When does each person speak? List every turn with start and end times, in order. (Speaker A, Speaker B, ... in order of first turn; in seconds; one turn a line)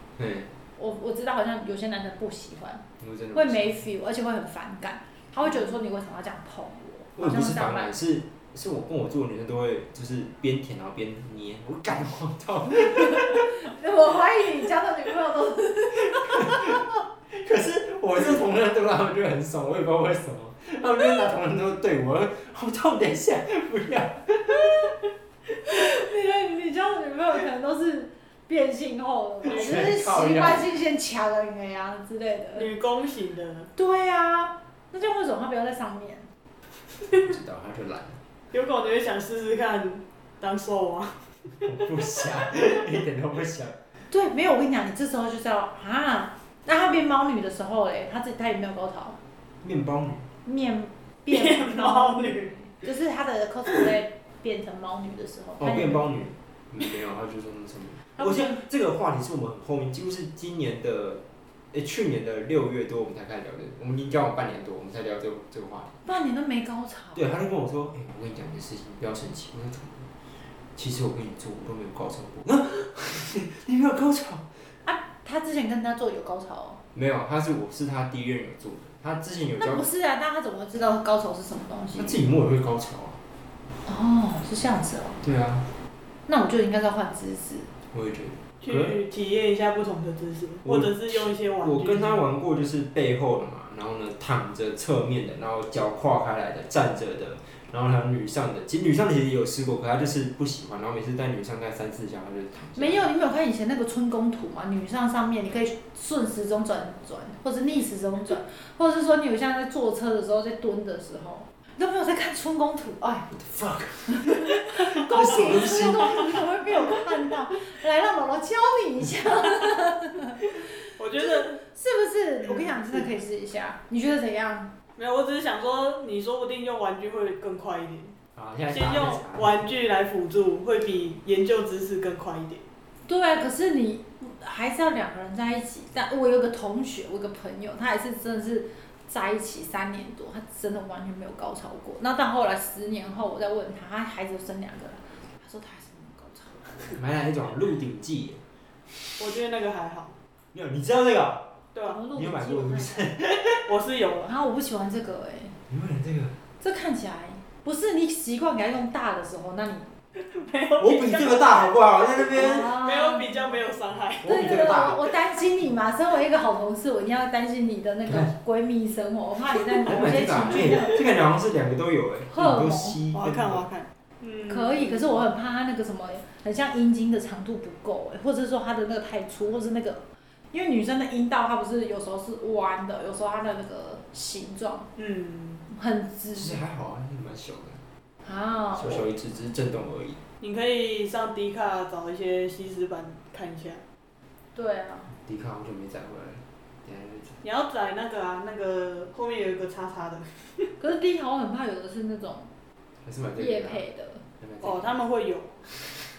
Speaker A: 0.2-0.5
Speaker B: 0.8-7.9
Speaker A: 3.0-3.8
Speaker A: 7.2-13.5
Speaker B: 12.9-16.8
Speaker A: 16.1-16.8
Speaker A: 17.3-24.9
Speaker B: 25.6-32.7
Speaker A: 29.4-30.7
Speaker C: 29.5-29.9
Speaker C: 32.5-33.7
Speaker B: 33.8-36.3
Speaker A: 37.1-38.2
Speaker C: 38.5-41.7
Speaker A: 41.6-43.8
Speaker B: 44.1-49.2
Speaker A: 49.6-50.3
Speaker B: 50.4-56.1
Speaker C: 51.3-52.5
Speaker A: 55.6-66.0
Speaker B: 58.1-58.6
Speaker B: 66.0-67.2
Speaker A: 67.1-70.1
Speaker A: 70.8-74.5
Speaker B: 74.8-76.8
Speaker A: 76.9-79.8
Speaker B: 79.6-82.2
Speaker A: 82.0-83.2
Speaker B: 83.8-85.2
Speaker A: 85.2-85.7
Speaker B: 86.3-87.7
Speaker A: 87.9-89.0
Speaker C: 88.6-92.2
Speaker A: 90.6-103.0
Speaker B: 102.8-113.3
Speaker A: 113.3-116.4
Speaker B: 114.1-120.7
Speaker C: 121.0-121.6
Speaker B: 121.2-124.7
Speaker C: 122.5-123.1
Speaker C: 125.0-128.1
Speaker A: 128.4-129.7
Speaker C: 128.7-132.6
Speaker B: 133.1-147.0
Speaker A: 146.9-148.4
Speaker C: 149.2-150.1
Speaker A: 150.5-151.4
Speaker C: 151.7-152.0
Speaker B: 151.9-153.1
Speaker A: 152.1-153.6
Speaker C: 153.6-154.3
Speaker B: 154.2-155.6
Speaker A: 155.7-156.3
Speaker B: 156.6-159.9
Speaker C: 160.2-164.3
Speaker A: 160.8-162.8
Speaker B: 162.3-163.6
Speaker A: 164.2-165.1
Speaker B: 164.2-171.0
Speaker A: 169.8-173.6
Speaker B: 172.3-173.0
Speaker C: 173.1-175.2
Speaker B: 174.5-184.9
Speaker C: 184.9-185.7
Speaker B: 185.7-186.6
Speaker A: 186.3-187.8
Speaker B: 188.2-189.1
Speaker A: 188.8-190.2
Speaker C: 190.4-193.8
Speaker B: 194.6-195.1
Speaker A: 195.1-197.4
Speaker C: 197.4-200.7
Speaker B: 200.8-202.5
Speaker A: 203.0-203.8
Speaker B: 203.4-204.2
Speaker A: 204.4-205.0
Speaker C: 204.6-205.6